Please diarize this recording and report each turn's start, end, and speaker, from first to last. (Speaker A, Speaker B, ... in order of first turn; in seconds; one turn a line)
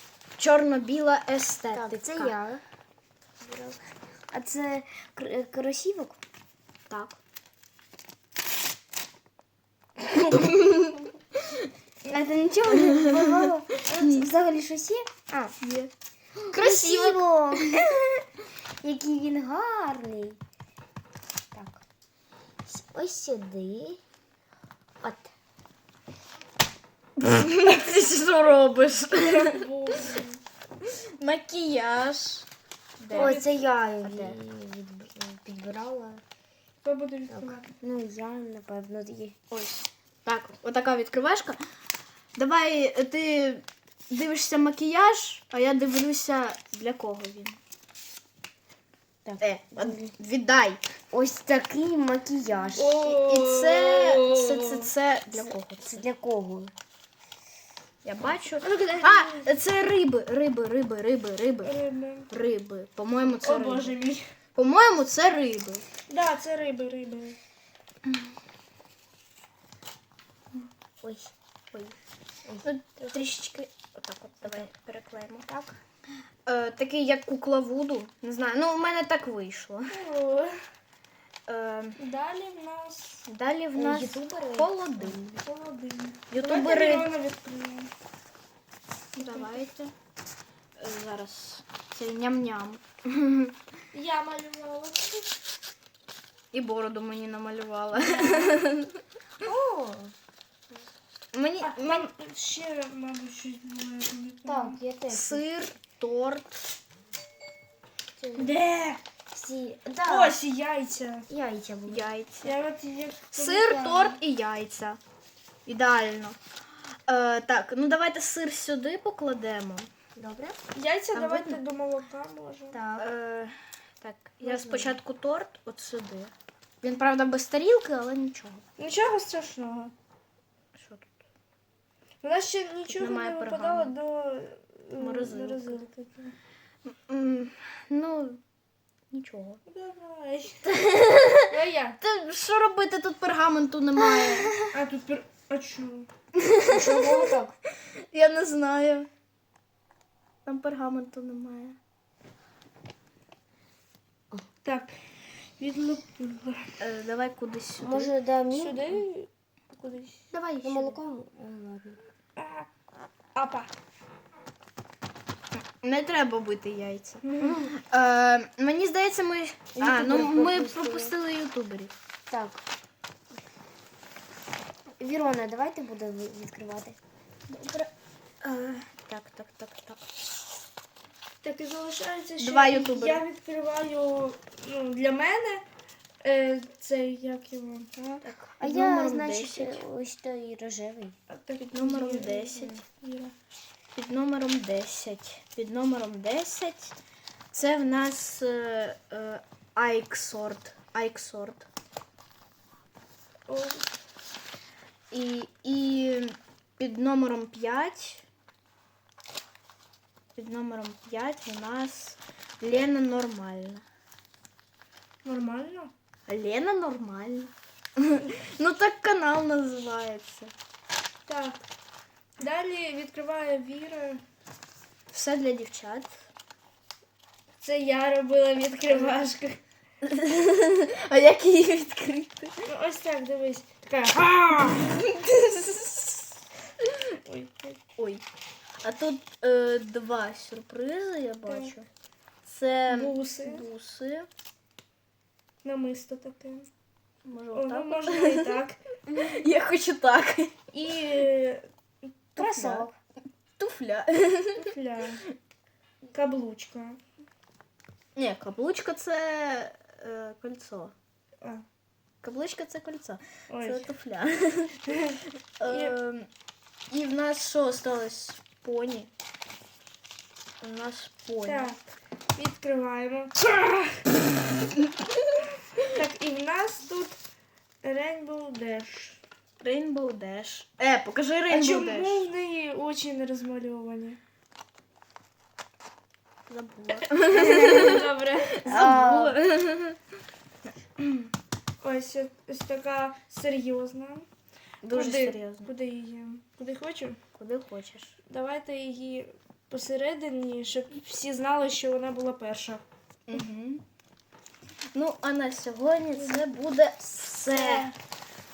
Speaker A: 0.4-2.4
Speaker B: 1.7-2.6
Speaker B: 3.4-3.8
Speaker B: 4.3-6.2
Speaker A: 6.9-7.2
Speaker A: 10.1-11.0
Speaker B: 12.1-15.5
Speaker A: 12.8-13.1
Speaker A: 13.9-14.2
Speaker A: 15.6-15.9
Speaker A: 16.4-17.2
Speaker B: 16.5-17.8
Speaker B: 18.8-20.4
Speaker B: 21.5-21.8
Speaker B: 22.6-24.0
Speaker B: 25.0-25.3
Speaker A: 27.2-30.1
Speaker C: 29.2-30.4
Speaker A: 30.8-32.5
Speaker A: 33.0-33.4
Speaker C: 33.1-33.6
Speaker B: 33.1-36.2
Speaker A: 34.0-34.3
Speaker C: 36.8-37.7
Speaker B: 37.3-39.4
Speaker A: 39.5-41.6
Speaker A: 42.3-47.6
Speaker B: 49.2-50.1
Speaker A: 49.4-50.8
Speaker B: 51.1-53.1
Speaker C: 52.7-54.9
Speaker A: 53.0-56.0
Speaker B: 55.3-56.7
Speaker A: 58.0-61.8
Speaker C: 58.6-59.5
Speaker C: 61.6-62.3
Speaker A: 62.3-64.0
Speaker C: 63.4-64.2
Speaker A: 64.5-65.8
Speaker C: 66.1-67.4
Speaker B: 71.0-71.3
Speaker A: 72.6-75.5
Speaker B: 75.5-75.7
Speaker A: 76.5-80.0
Speaker C: 79.9-80.6
Speaker A: 81.5-82.0
Speaker C: 82.0-83.2
Speaker A: 83.3-85.2
Speaker B: 83.7-85.4
Speaker C: 85.4-87.9
Speaker A: 86.3-87.1
Speaker A: 89.1-89.9
Speaker C: 89.2-89.5
Speaker A: 90.8-93.5
Speaker C: 93.9-95.3
Speaker A: 96.5-99.0
Speaker B: 98.0-98.5
Speaker B: 99.4-100.1
Speaker A: 101.3-102.1
Speaker C: 101.6-104.8
Speaker B: 104.5-105.5
Speaker A: 105.1-106.5
Speaker B: 108.2-108.5
Speaker A: 108.4-109.0
Speaker B: 109.3-110.3
Speaker C: 110.0-111.3
Speaker B: 111.3-112.1
Speaker A: 111.9-112.5
Speaker C: 112.4-114.1
Speaker A: 113.3-115.0
Speaker A: 115.7-116.4
Speaker A: 117.1-119.9
Speaker B: 120.2-120.6
Speaker C: 120.7-122.8
Speaker A: 121.1-121.6
Speaker B: 122.7-123.1
Speaker A: 123.0-128.6
Speaker B: 124.5-124.9
Speaker C: 128.8-129.9
Speaker A: 130.8-131.1
Speaker C: 132.2-136.3
Speaker A: 132.9-134.0
Speaker A: 135.0-135.8
Speaker A: 136.8-138.4
Speaker A: 139.1-139.6
Speaker C: 139.7-140.7
Speaker A: 140.7-141.4
Speaker C: 141.5-142.0
Speaker A: 142.0-144.5
Speaker C: 144.7-146.1
Speaker A: 146.3-147.3
Speaker B: 146.7-147.5
Speaker A: 148.1-149.1
Speaker A: 150.4-151.8
Speaker C: 154.6-155.1
Speaker C: 155.6-156.8
Speaker A: 156.8-158.1
Speaker B: 157.8-159.0
Speaker C: 158.5-160.3
Speaker A: 160.3-161.0
Speaker B: 160.6-162.0
Speaker C: 162.4-162.7
Speaker C: 163.3-163.7
Speaker A: 165.6-171.9
Speaker C: 167.2-167.6
Speaker B: 169.8-171.1
Speaker B: 172.3-172.6
Speaker B: 175.0-177.0
Speaker A: 177.5-177.9
Speaker A: 178.4-180.0
Speaker C: 181.4-185.6
Speaker A: 182.4-183.2
Speaker C: 186.2-188.2
Speaker A: 188.2-189.8
Speaker B: 188.6-191.1
Speaker C: 191.3-193.3
Speaker A: 191.6-192.8
Speaker A: 193.9-196.9
Speaker A: 197.5-201.7
Speaker C: 203.5-204.0
Speaker A: 205.1-208.2
Speaker A: 210.3-213.8
Speaker C: 215.2-215.9
Speaker A: 216.3-220.5
Speaker C: 221.3-221.6
Speaker C: 222.4-224.2
Speaker A: 225.1-226.1
Speaker C: 227.6-229.6
Speaker A: 228.9-229.2
Speaker A: 230.0-232.7
Speaker C: 232.7-234.9
Speaker A: 234.8-236.2
Speaker C: 237.2-237.8
Speaker A: 238.0-238.2
Speaker A: 238.8-241.9
Speaker C: 241.5-241.7
Speaker A: 242.4-244.3
Speaker C: 242.9-243.7
Speaker C: 245.6-246.7
Speaker A: 247.2-248.6
Speaker C: 247.5-248.8
Speaker A: 249.1-250.5
Speaker C: 250.7-252.8
Speaker A: 252.4-252.9
Speaker B: 252.4-252.9
Speaker A: 253.6-254.7
Speaker C: 254.6-255.2
Speaker C: 256.1-257.0
Speaker A: 258.1-260.9
Speaker A: 262.2-264.8
Speaker C: 263.5-263.9
Speaker C: 264.9-265.9
Speaker A: 265.6-266.3
Speaker A: 266.9-269.1
Speaker A: 270.6-271.8
Speaker C: 271.4-271.8
Speaker C: 272.3-274.0
Speaker C: 275.9-277.2
Speaker C: 277.8-279.2
Speaker A: 279.6-282.2
Speaker C: 281.5-284.2
Speaker A: 286.5-289.9
Speaker C: 287.0-288.8
Speaker B: 288.6-289.4
Speaker A: 291.0-291.3
Speaker C: 291.8-294.3
Speaker A: 294.8-295.7
Speaker C: 294.9-297.2
Speaker A: 297.4-298.1
Speaker C: 298.3-302.8
Speaker A: 303.3-303.8
Speaker A: 304.9-307.9
Speaker C: 306.1-306.4
Speaker C: 307.5-307.9